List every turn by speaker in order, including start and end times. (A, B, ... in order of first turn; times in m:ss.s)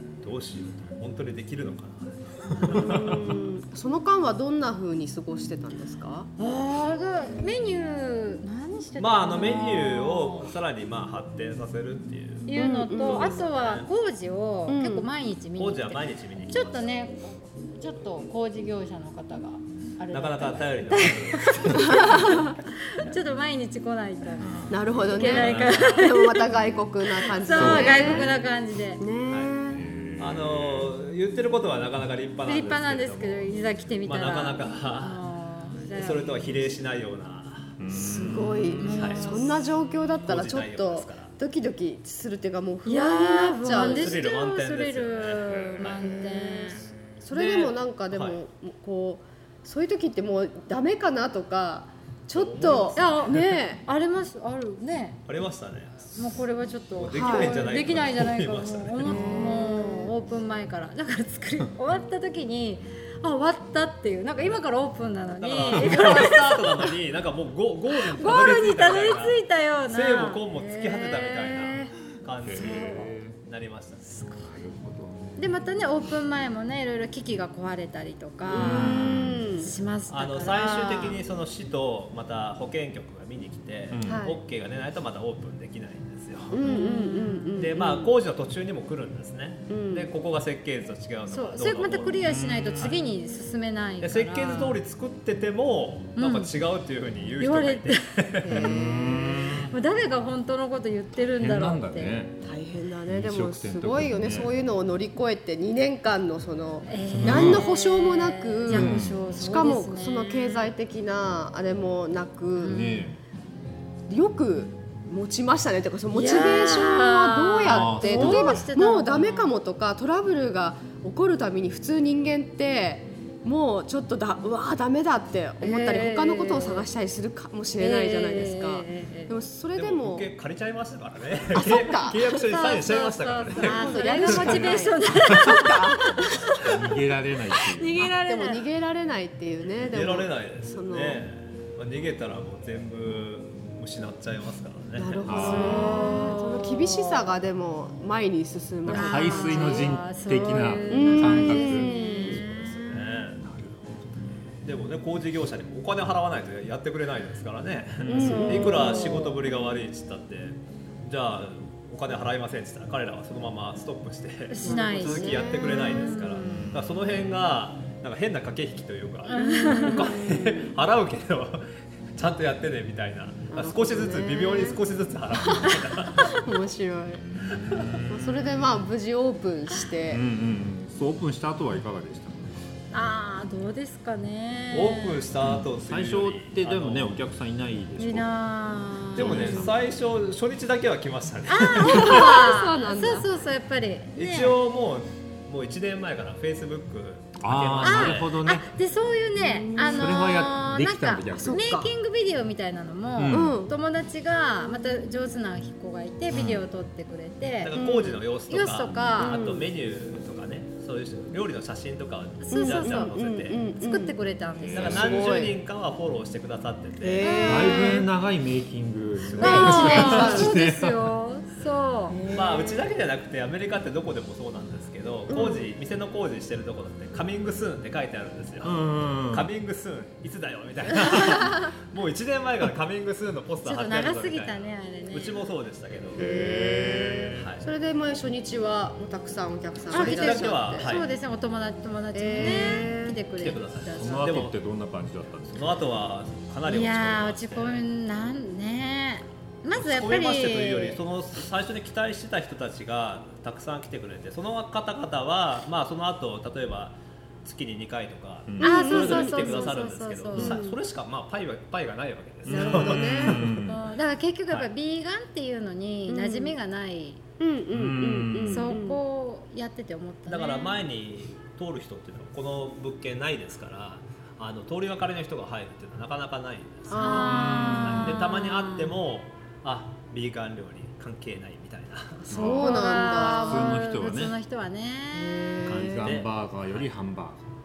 0:00.2-0:03.4 A
0:02.6-0:06.3 B
0:06.4-0:10.5 C
0:09.0-0:13.9 A
0:12.5-0:26.5 C
0:12.5-0:13.4 B
0:14.7-0:15.1 B
0:15.6-0:16.9 A
0:20.1-0:22.4 A
0:21.9-0:22.5 B
0:24.4-0:25.3 D
0:24.7-0:28.3 B
0:25.1-0:26.1 A
0:27.2-0:29.0 C
0:27.5-0:28.3 D
0:29.0-0:29.8 B
0:29.3-0:29.5 A
0:29.7-0:30.9 D
0:30.2-0:35.2 A
0:32.4-0:36.6 C
0:35.9-0:37.8 A
0:37.8-0:38.8 D
0:37.9-0:44.2 B
0:38.8-0:39.5 C
0:38.9-0:39.5 A
0:40.2-0:41.3 A
0:42.8-0:46.8 C
0:43.7-0:46.2 A
0:45.5-0:45.8 D
0:46.0-0:53.8 B
0:47.3-0:48.4 A
0:52.3-0:53.4 A
0:52.6-0:55.2 C
0:55.3-0:56.4 A
0:56.1-1:06.9 C
0:57.0-0:59.4 A
0:57.1-0:57.7 B
0:59.0-1:00.1 B
1:05.4-1:14.2 A
1:08.0-1:11.9 C
1:12.4-1:13.4 D
1:12.6-1:13.1 C
1:14.3-1:15.4 D
1:15.4-1:21.2 C
1:18.5-1:19.7 B
1:18.6-1:19.5 D
1:20.1-1:26.6 A
1:23.9-1:24.2 D
1:24.0-1:24.4 B
1:26.5-1:28.1 B
1:26.6-1:27.6 C
1:27.6-1:33.0 A
1:29.7-1:30.1 B
1:31.3-1:34.8 C
1:32.2-1:32.9 D
1:34.0-1:38.7 A
1:36.2-1:36.5 C
1:37.4-1:38.4 C
1:38.4-1:39.6 B
1:38.5-1:39.7 D
1:39.6-1:42.2 C
1:41.3-1:42.4 D
1:42.4-1:52.8 B
1:43.1-1:44.5 D
1:46.9-1:50.7 C
1:47.1-1:47.6 D
1:48.7-1:49.2 D
1:52.6-1:53.1 C
1:52.6-1:53.2 D
1:54.1-2:10.3 B
1:56.1-1:59.5 C
1:57.6-1:58.6 D
2:05.6-2:06.9 C
2:07.8-2:09.4 C
2:09.7-2:14.7 A
2:11.5-2:12.3 B
2:12.4-2:16.6 C
2:13.6-2:16.4 B
2:16.6-2:18.1 D
2:17.5-2:18.6 C
2:18.0-2:21.2 B
2:19.8-2:25.8 A
2:25.0-2:29.9 B
2:25.2-2:26.1 D
2:25.3-2:27.3 C
2:28.8-2:31.9 D
2:28.9-2:33.0 C
2:30.9-2:32.4 B
2:32.1-2:33.4 A
2:33.4-2:34.0 D
2:34.6-2:56.4 A
2:38.0-2:38.6 D
2:38.0-2:39.2 B
2:38.1-2:39.4 C
2:44.5-2:46.7 C
2:44.6-2:46.2 B
2:49.3-2:50.1 C
2:49.3-2:50.7 B
2:53.5-2:54.8 B
2:55.5-2:57.3 B
2:57.6-2:57.9 A
2:57.8-2:58.2 D
2:58.1-3:00.2 B
3:00.1-3:02.7 D
3:02.9-3:05.2 C
3:04.7-3:07.2 A
3:05.4-3:08.3 D
3:08.0-3:09.7 C
3:09.1-3:09.8 D
3:09.1-3:12.3 A
3:11.5-3:14.6 C
3:11.8-3:13.3 B
3:14.2-3:18.4 A
3:17.4-3:18.7 D
3:17.8-3:27.8 C
3:19.4-3:20.1 B
3:19.9-3:21.8 D
3:21.3-3:21.9 B
3:23.2-3:23.6 D
3:23.3-3:23.7 B
3:26.3-3:26.6 D
3:27.6-3:33.6 A
3:27.7-3:28.2 B
3:28.5-3:29.4 C
3:29.2-3:29.7 B
3:32.4-3:33.1 C
3:32.5-3:34.2 B
3:33.8-3:35.1 C
3:34.6-3:35.3 D
3:34.7-3:37.3 A
3:34.9-3:35.6 B
3:37.0-3:38.0 B
3:37.2-3:38.0 C
3:37.4-3:41.1 D
3:39.2-3:40.4 A
3:39.4-3:40.5 B
3:39.4-3:42.2 C
3:42.1-3:42.8 B
3:42.3-3:56.3 A
3:45.3-3:45.7 B
3:48.6-3:49.5 D
3:53.6-3:55.5 C
3:56.2-3:57.5 D
3:56.2-4:01.0 B
3:57.3-3:57.7 A
3:59.9-4:04.4 C
3:59.9-4:01.1 A
4:02.1-4:03.2 B
4:03.4-4:04.6 A
4:04.0-4:05.7 D
4:05.5-4:07.8 A
4:06.7-4:11.0 C
4:09.7-4:23.7 A
4:18.6-4:19.7 B
4:18.6-4:20.6 C
4:20.3-4:20.8 B
4:22.4-4:23.8 D
4:22.5-4:23.4 B
4:23.6-4:27.2 C
4:26.1-4:26.6 B
4:27.4-4:29.0 B
4:27.7-4:28.7 D
4:28.4-4:30.8 C
4:30.3-4:42.3 A
4:36.9-4:37.7 B
4:36.9-4:38.9 C
4:37.2-4:38.2 D
4:42.2-4:43.6 B
4:42.3-4:44.4 D
4:42.5-4:45.6 C
4:45.1-4:46.2 B
4:45.6-4:47.4 D
4:45.8-4:46.9 A